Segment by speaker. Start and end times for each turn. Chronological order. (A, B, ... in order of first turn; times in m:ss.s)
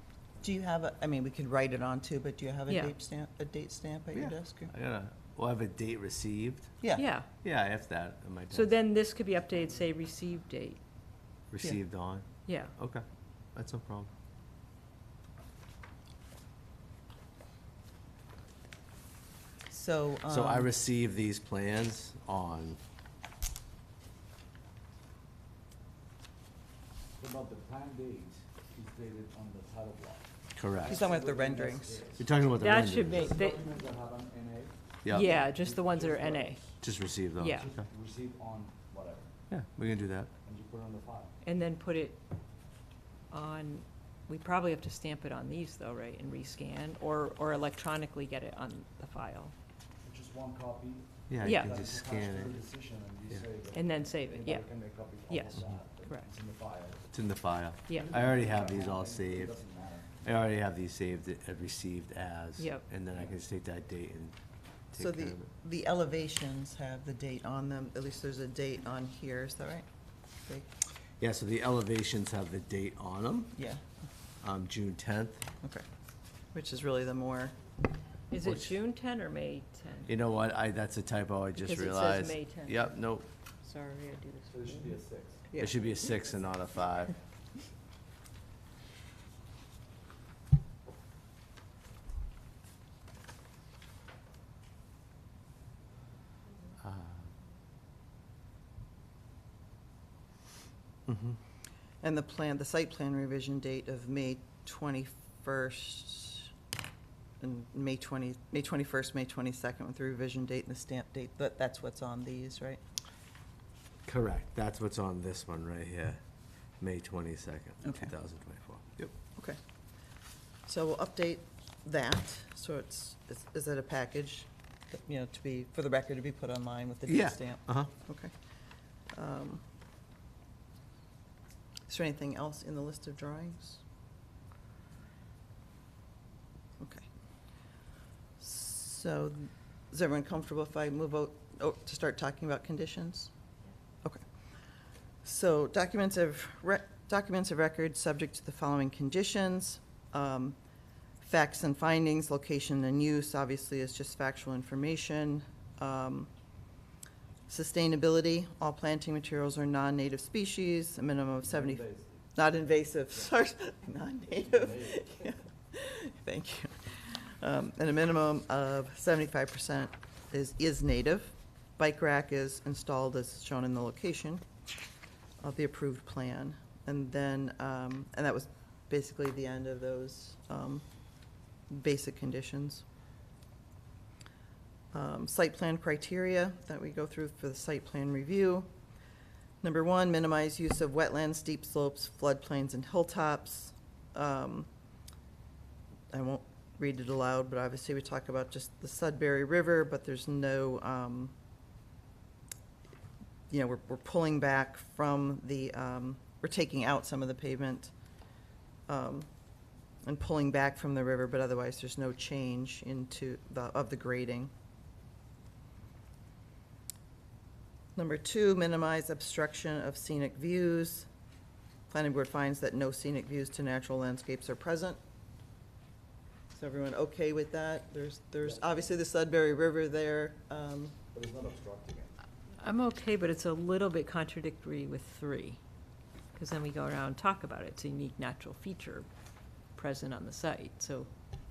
0:00.4-0:04.7 A
0:04.1-0:06.8 B
0:06.8-0:07.1 A
0:07.0-0:07.3 C
0:07.4-0:08.8 B
0:08.5-0:10.8 C
0:11.5-0:14.1 B
0:12.5-0:12.7 C
0:19.7-0:20.7 A
0:20.3-0:22.8 B
0:27.2-0:30.3 D
0:30.6-0:31.1 B
0:30.8-0:32.3 D
0:30.8-0:32.0 A
0:32.2-0:33.2 B
0:32.6-0:33.7 C
0:33.0-0:36.8 D
0:35.0-0:35.4 B
0:35.1-0:36.6 C
0:36.8-0:37.9 B
0:37.4-0:37.7 C
0:37.5-0:39.3 D
0:39.5-0:40.3 B
0:40.4-0:41.3 D
0:41.4-0:42.2 C
0:43.3-0:49.5 C
0:50.0-0:57.1 D
0:51.3-0:52.6 B
0:51.4-0:51.7 C
0:53.7-0:54.7 C
0:55.3-0:56.3 C
0:57.1-0:59.5 B
0:58.0-1:00.2 D
1:00.2-1:04.4 B
1:02.6-1:02.9 C
1:03.1-1:03.4 D
1:04.9-1:05.5 B
1:05.0-1:09.9 A
1:11.2-1:13.6 B
1:13.6-1:13.8 A
1:14.4-1:15.4 B
1:16.5-1:17.5 A
1:18.3-1:20.1 C
1:18.4-1:18.7 B
1:20.1-1:23.3 B
1:21.6-1:23.1 C
1:23.6-1:25.0 C
1:24.5-1:26.5 D
1:25.5-1:25.9 C
1:25.6-1:27.2 B
1:36.8-1:37.3 B
1:41.1-1:41.4 B
1:42.0-1:46.5 A
1:47.4-1:52.8 A
1:54.1-1:56.2 B
1:56.8-1:59.1 B
1:57.8-1:58.1 A
2:00.7-2:08.3 A
2:07.1-2:07.9 B
2:09.1-2:09.6 A
2:11.9-2:13.8 A
2:16.8-2:17.1 A
2:18.4-2:23.3 A
2:25.2-2:30.6 A
2:31.2-2:36.3 A
2:37.5-2:41.8 A
2:41.5-2:42.2 D
2:42.4-2:54.4 A
2:44.4-2:45.0 D
2:55.4-3:00.8 A
3:01.7-3:02.8 A
3:04.9-3:08.7 A
3:09.6-3:14.7 A
3:16.1-3:21.3 A
3:23.5-3:27.9 A
3:28.9-3:29.3 A
3:30.0-3:34.5 A
3:38.0-3:41.1 A
3:41.9-3:45.0 A
3:46.5-3:51.0 A
3:48.4-3:48.7 D
3:51.1-3:52.1 D
3:52.6-3:55.6 C
3:56.4-3:59.1 C
3:59.7-4:01.1 C